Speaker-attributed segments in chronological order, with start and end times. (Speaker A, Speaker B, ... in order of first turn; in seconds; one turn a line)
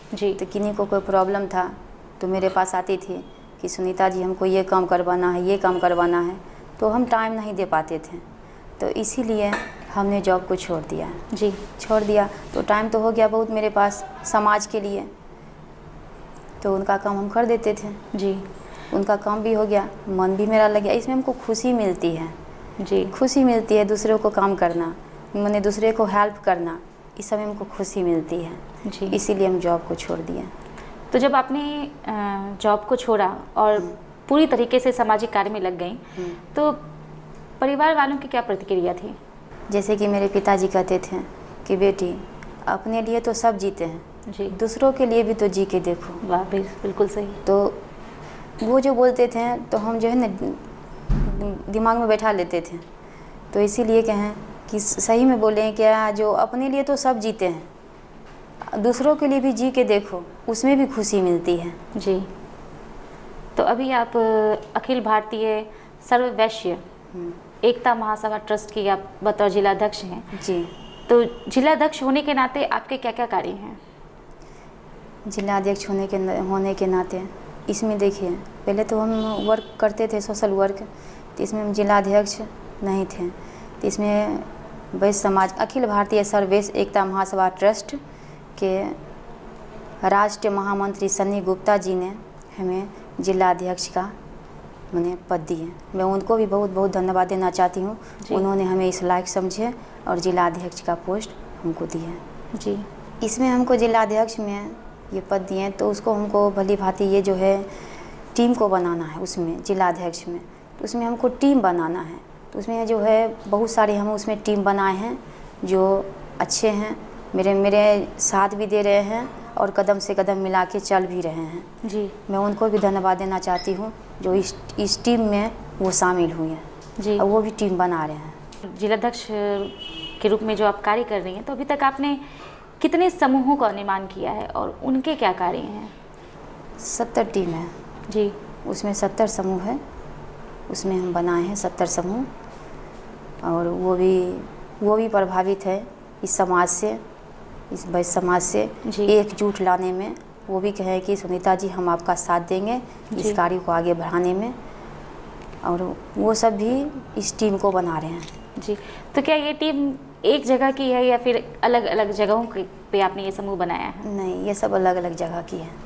Speaker A: 0.1-0.4
Speaker B: 0.4-8.2
Speaker B: 8.8-15.1
Speaker A: 11.3-11.6
Speaker B: 16.6-18.0
Speaker A: 18.1-18.5
Speaker B: 18.9-22.4
Speaker A: 22.8-23.1
Speaker B: 23.1-30.5
Speaker A: 28.9-29.2
Speaker A: 31.1-36.9
Speaker A: 37.6-39.2
Speaker B: 39.7-46.2
Speaker A: 44.3-44.5
Speaker A: 46.2-47.4
Speaker B: 47.5-47.8
Speaker B: 48.6-52.9
Speaker B: 53.5-57.7
Speaker B: 58.7-61.8
Speaker A: 62.0-62.3
Speaker A: 63.6-66.8
Speaker B: 67.1-67.4
Speaker A: 67.6-70.3
Speaker B: 70.3-70.7
Speaker A: 71.1-73.8
Speaker B: 75.3-88.0
Speaker B: 88.6-89.0
Speaker B: 90.0-94.1
Speaker B: 94.9-102.2
Speaker A: 102.5-102.9
Speaker B: 103.2-107.8
Speaker B: 108.3-121.7
Speaker A: 121.8-122.2
Speaker B: 122.3-128.4
Speaker A: 127.0-127.2
Speaker A: 128.6-135.9
Speaker B: 136.8-137.7
Speaker A: 138.1-138.4
Speaker B: 138.6-139.8
Speaker B: 140.7-142.3
Speaker B: 143.4-147.0
Speaker B: 147.7-154.6
Speaker A: 148.9-149.1
Speaker B: 155.6-158.3
Speaker A: 158.6-164.1
Speaker B: 164.0-165.8